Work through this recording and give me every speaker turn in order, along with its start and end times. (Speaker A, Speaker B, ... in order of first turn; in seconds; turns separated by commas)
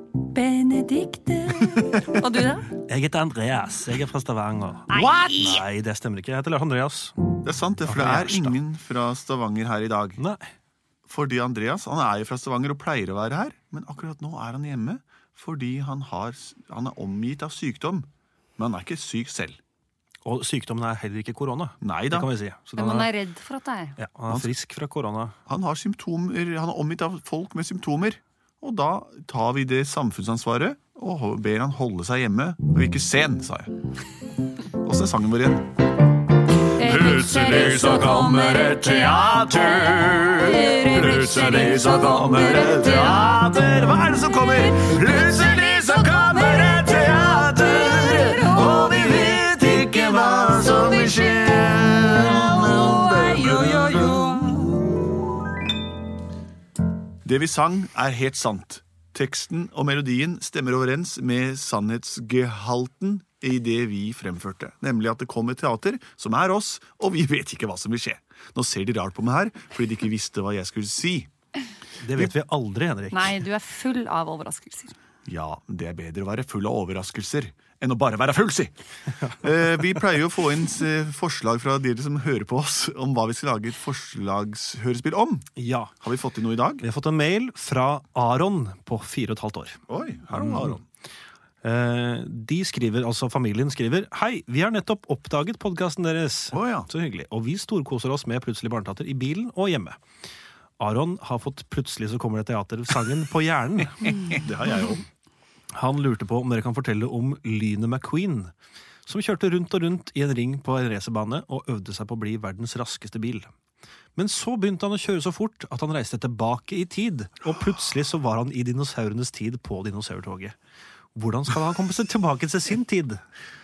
Speaker A: 0.3-2.7, Speaker B: 1.9-2.2, Speaker C: 2.7-7.1, Speaker A: 4.9-5.6, Speaker B: 7.4-10.2, Speaker C: 7.8-8.6, Speaker B: 11.1-18.1, Speaker B: 18.6-19.6, Speaker C: 20.2-23.1, Speaker B: 21.8-22.3, Speaker A: 22.8-24.0, Speaker C: 24.0-25.3, Speaker B: 25.4-33.7, Speaker B: 34.8-35.6, Speaker A: 36.8-43.5, Speaker B: 36.8-54.9, Speaker A: 44.4-54.6, Speaker B: 57.2-71.3, Speaker C: 72.0-73.3, Speaker A: 73.1-74.9, Speaker B: 75.3-78.7, Speaker B: 79.3-85.5, Speaker C: 85.6-85.9, Speaker B: 86.0-86.8, Speaker C: 86.8-89.8, Speaker B: 89.9-90.8, Speaker C: 90.3-90.7, Speaker C: 91.6-100.0, Speaker B: 96.5-96.9, Speaker C: 100.8-104.2, Speaker B: 104.0-105.0, Speaker C: 105.7-108.5, Speaker C: 109.0-113.5, Speaker C: 114.2-120.5, Speaker C: 121.2-123.2